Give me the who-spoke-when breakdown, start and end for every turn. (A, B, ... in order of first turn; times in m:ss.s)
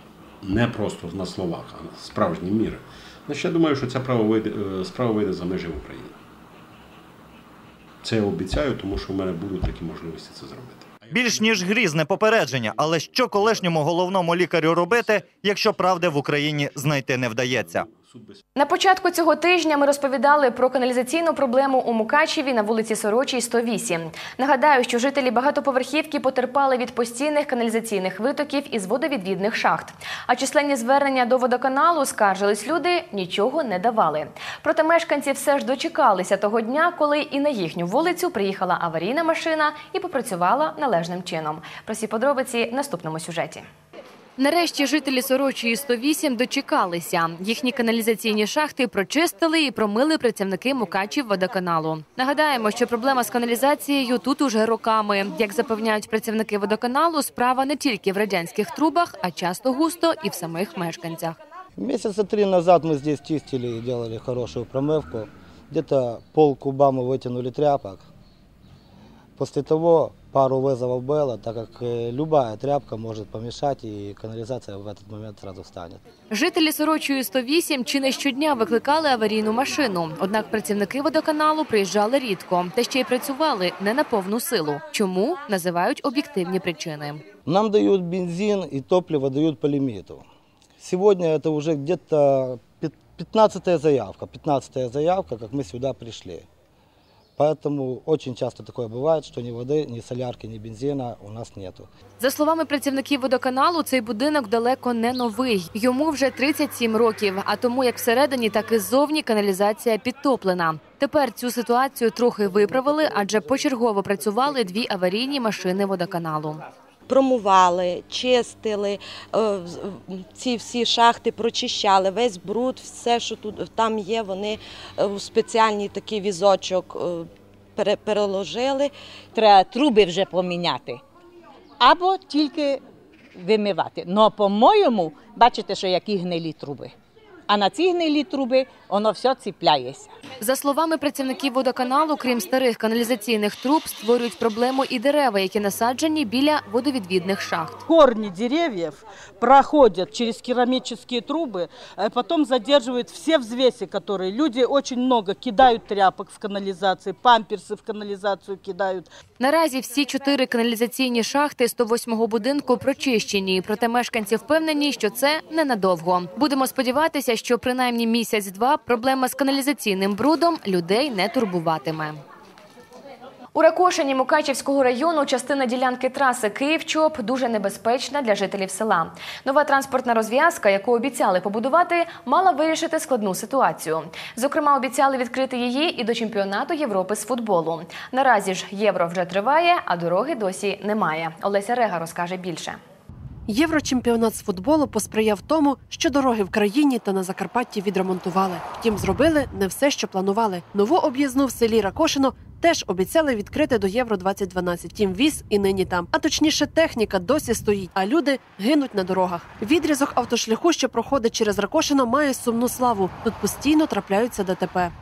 0:00.4-0:06.2 A
0:08.0-0:13.7 A
0:11.1-0:17.9 B
0:14.9-0:16.2 A
0:17.5-0:18.4 A
0:18.6-0:43.6 C
0:44.4-1:01.4 C
1:01.8-1:08.0 D
1:09.4-1:16.0 D
1:16.3-1:27.2 C
1:27.5-1:30.2 D
1:30.8-1:36.4 D
1:37.4-1:41.9 D
1:42.2-1:56.6 C
1:57.1-2:08.9 E
2:09.3-2:11.0 F
2:11.8-2:12.8 F
2:13.4-2:16.9 F
2:17.5-2:20.1 F
2:20.4-2:27.8 C
2:27.8-2:39.1 G
2:39.4-2:52.2 C
2:53.5-3:12.8 C
3:13.5-3:34.9 H